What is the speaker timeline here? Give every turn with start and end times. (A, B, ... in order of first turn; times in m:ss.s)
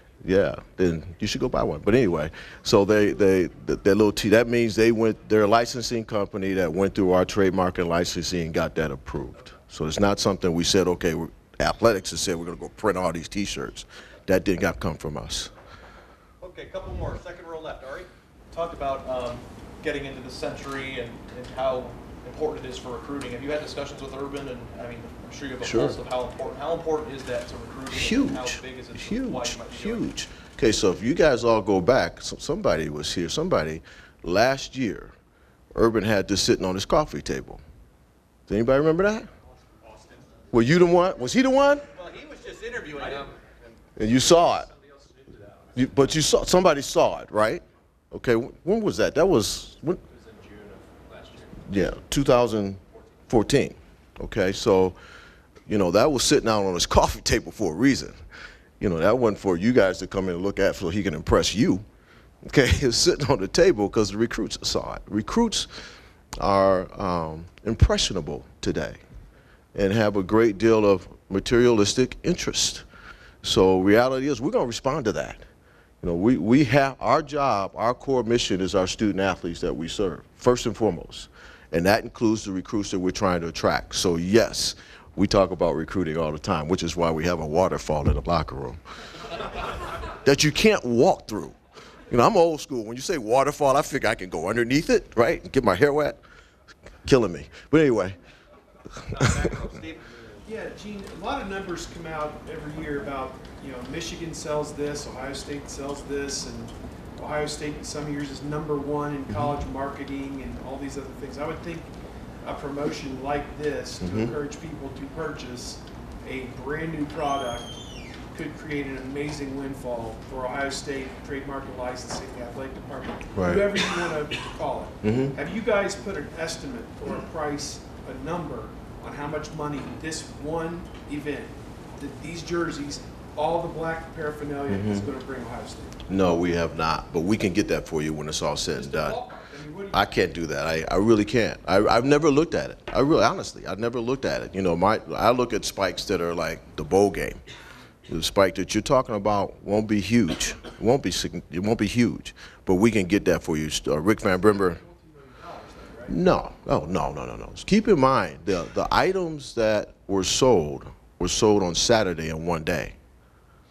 0:00.2-0:15.5 A
0:16.4-0:18.1 B
0:18.7-0:29.9 C
0:25.6-0:26.0 A
0:27.9-0:35.1 A
0:35.8-0:37.6 A
0:38.5-0:39.3 A
0:40.5-0:41.8 A
0:42.0-0:43.3 B
0:44.0-0:44.7 A
0:45.7-0:50.0 A
0:50.1-0:51.6 D
0:51.6-0:55.0 A
0:55.7-0:58.2 A
0:58.8-1:01.8 A
1:02.5-1:05.7 A
1:06.4-1:09.0 A
1:09.8-1:12.8 A
1:13.4-1:15.4 A
1:16.0-1:28.8 A
1:30.2-1:31.6 A
1:32.1-1:36.2 A
1:37.0-1:38.2 A
1:39.1-1:40.5 D
1:39.2-1:39.5 A
1:40.4-1:57.8 E
1:49.3-1:49.6 A
1:54.0-1:54.4 A
1:58.3-2:16.0 E
2:03.4-2:03.9 A
2:05.0-2:05.4 A
2:14.7-2:15.1 A
2:16.1-2:19.2 A
2:18.8-2:20.1 E
2:19.9-2:27.4 A
2:28.1-2:34.8 A
2:36.1-2:43.0 A